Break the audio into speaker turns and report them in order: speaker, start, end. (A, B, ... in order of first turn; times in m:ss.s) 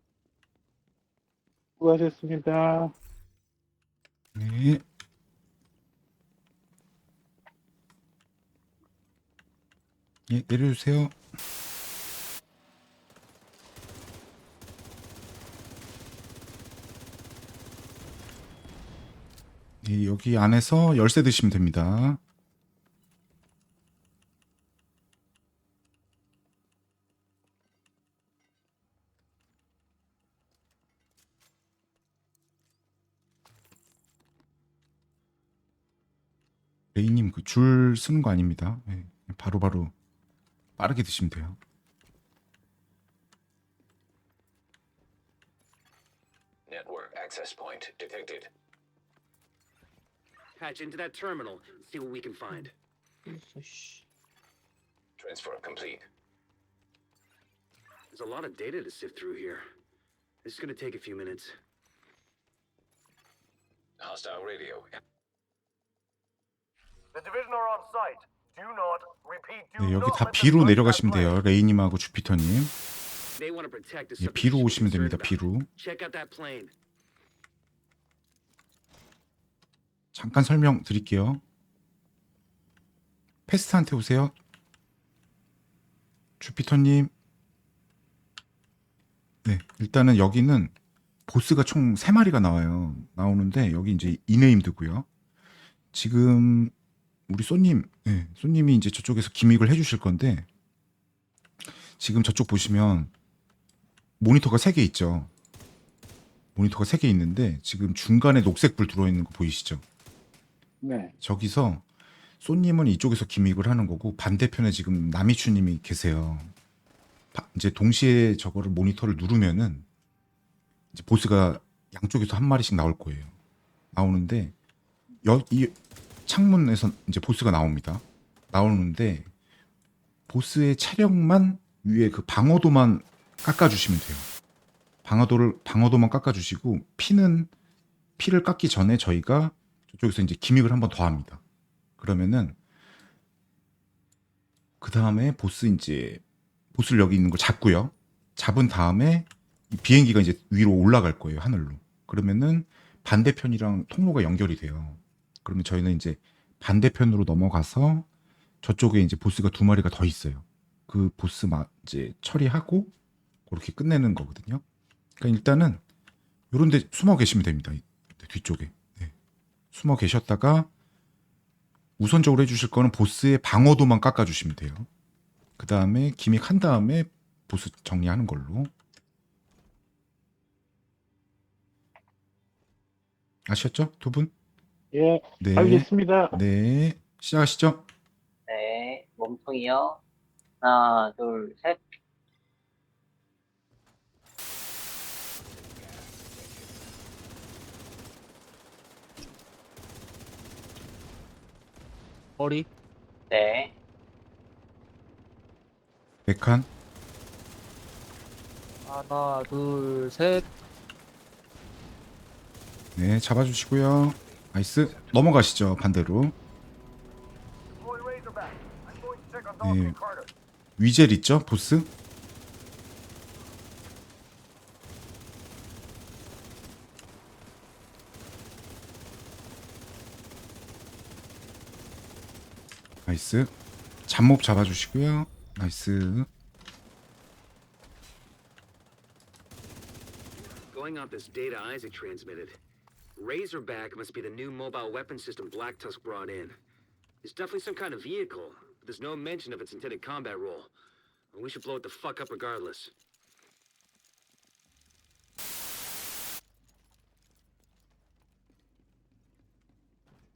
0:01.8-0:02.9 A
0:04.3-0:04.8 B
0:10.3-0:11.2 B
0:19.8-0:22.2 B
0:36.9-0:39.9 B
0:40.8-0:41.6 B
0:46.7-0:48.5 C
0:50.6-0:52.7 D
0:53.2-0:54.0 E
0:55.2-0:56.0 C
0:58.1-0:59.6 D
1:00.4-1:01.6 D
1:04.0-1:05.0 C
1:07.1-1:11.4 F
1:09.8-1:12.7 B
1:13.4-1:16.7 D
1:14.2-1:15.7 B
1:20.1-1:21.4 B
1:23.5-1:24.3 B
1:26.4-1:27.1 B
1:29.4-1:30.7 B
1:31.3-1:35.0 B
1:35.9-1:36.7 B
1:37.3-1:40.5 B
1:42.0-1:43.1 B
1:44.2-1:45.3 B
1:46.5-1:49.8 B
1:50.8-1:51.1 A
1:51.2-1:51.8 B
1:52.4-1:56.5 B
1:57.3-1:59.8 B
2:00.9-2:03.3 B
2:03.9-2:04.5 B
2:05.2-2:05.8 B
2:06.3-2:09.3 B
2:10.3-2:14.3 B
2:15.0-2:17.5 B
2:18.2-2:21.4 B
2:22.0-2:22.6 B
2:24.8-2:26.2 B
2:26.7-2:38.0 B
2:38.6-2:42.9 B
2:43.5-2:44.6 B
2:45.2-2:45.8 B
2:46.5-2:49.1 B
2:49.7-2:50.7 B
2:52.0-2:54.9 B
2:55.6-2:58.7 B
3:03.5-3:04.3 B
3:04.9-3:06.4 A
3:05.4-3:07.8 B
3:08.5-3:10.0 G
3:10.6-3:11.8 G
3:15.4-3:16.9 C
3:22.4-3:22.7 E
3:23.3-3:23.7 G
3:26.3-3:26.7 B
3:28.8-3:30.5 E
3:33.0-3:36.3 B
3:34.2-3:35.1 C
3:37.7-3:40.3 F
3:39.6-3:40.0 B
3:40.8-3:41.9 B
3:53.0-3:53.5 B
3:54.1-3:56.3 B
4:00.6-4:02.6 D
4:03.2-4:06.6 D
4:07.2-4:10.7 D
4:11.3-4:12.9 D